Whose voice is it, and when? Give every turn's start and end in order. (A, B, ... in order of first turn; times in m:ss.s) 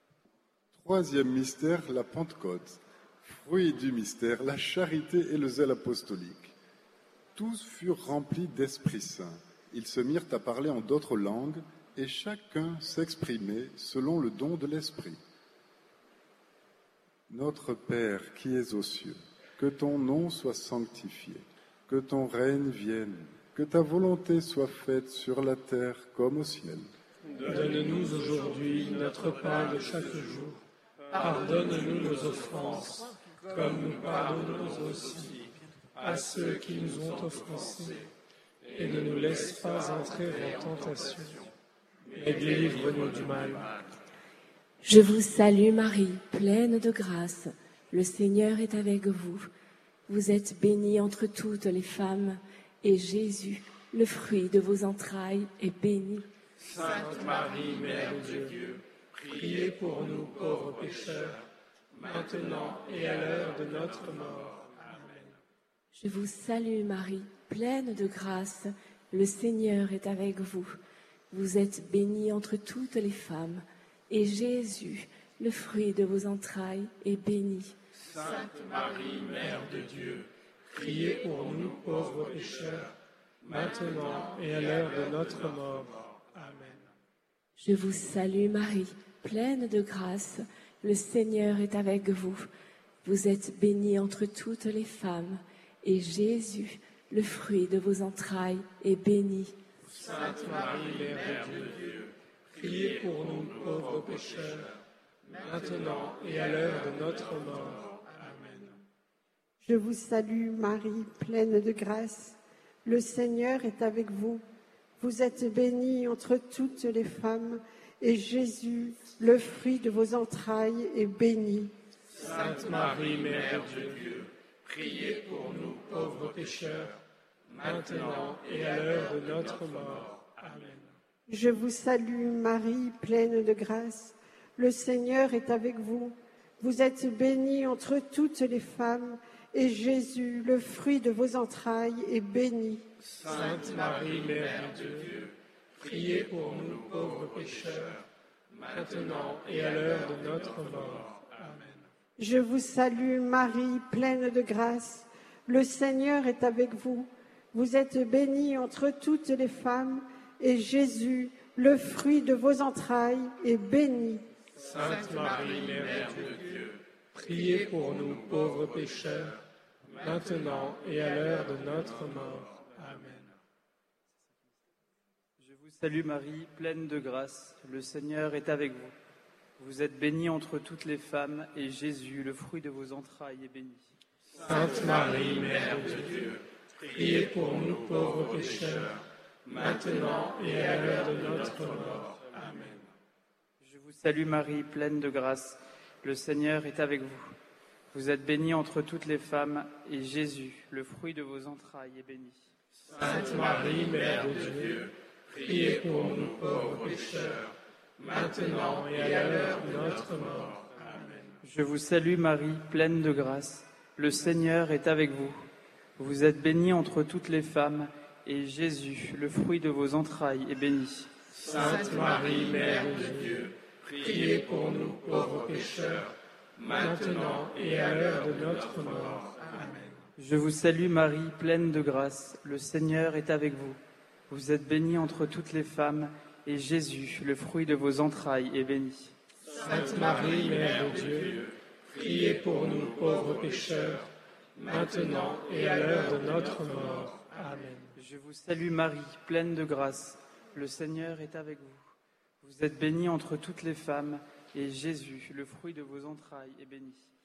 0:00.7-0:06.5 A
0:07.4-0:15.2 A
0:17.3-0:26.9 A
0:27.4-0:30.6 B
0:31.1-0:35.4 B
0:36.0-0:38.0 B
0:38.7-0:41.5 B
0:42.1-0:43.7 B
0:44.8-0:49.5 C
0:50.1-0:56.3 C
0:56.7-1:01.4 B
1:02.0-1:05.2 B
1:05.9-1:10.8 C
1:11.3-1:17.8 C
1:19.3-1:22.9 B
1:23.4-1:26.8 B
1:27.6-1:32.5 C
1:33.0-1:39.6 C
1:40.0-1:42.0 B
1:42.5-1:44.7 B
1:45.4-1:48.0 B
1:49.7-1:52.3 D
1:52.8-1:54.4 D
1:55.0-2:01.7 D
2:02.2-2:07.0 B
2:07.6-2:10.9 B
2:11.4-2:22.8 D
2:23.2-2:28.0 B
2:28.7-2:31.7 B
2:32.2-2:37.1 D
2:37.6-2:44.2 D
2:44.6-2:49.4 B
2:50.0-2:53.2 B
2:55.4-2:58.9 E
2:59.6-3:03.9 E
3:04.4-3:08.9 B
3:09.5-3:12.7 B
3:13.6-3:17.3 E
3:17.9-3:22.5 E
3:23.0-3:24.9 B
3:25.4-3:27.4 B
3:28.1-3:30.6 B
3:31.4-3:41.1 E
3:41.5-3:46.1 B
3:46.7-3:49.9 B
3:50.2-3:59.1 E
3:59.6-4:04.1 B
4:04.6-4:07.9 B
4:08.0-4:17.1 E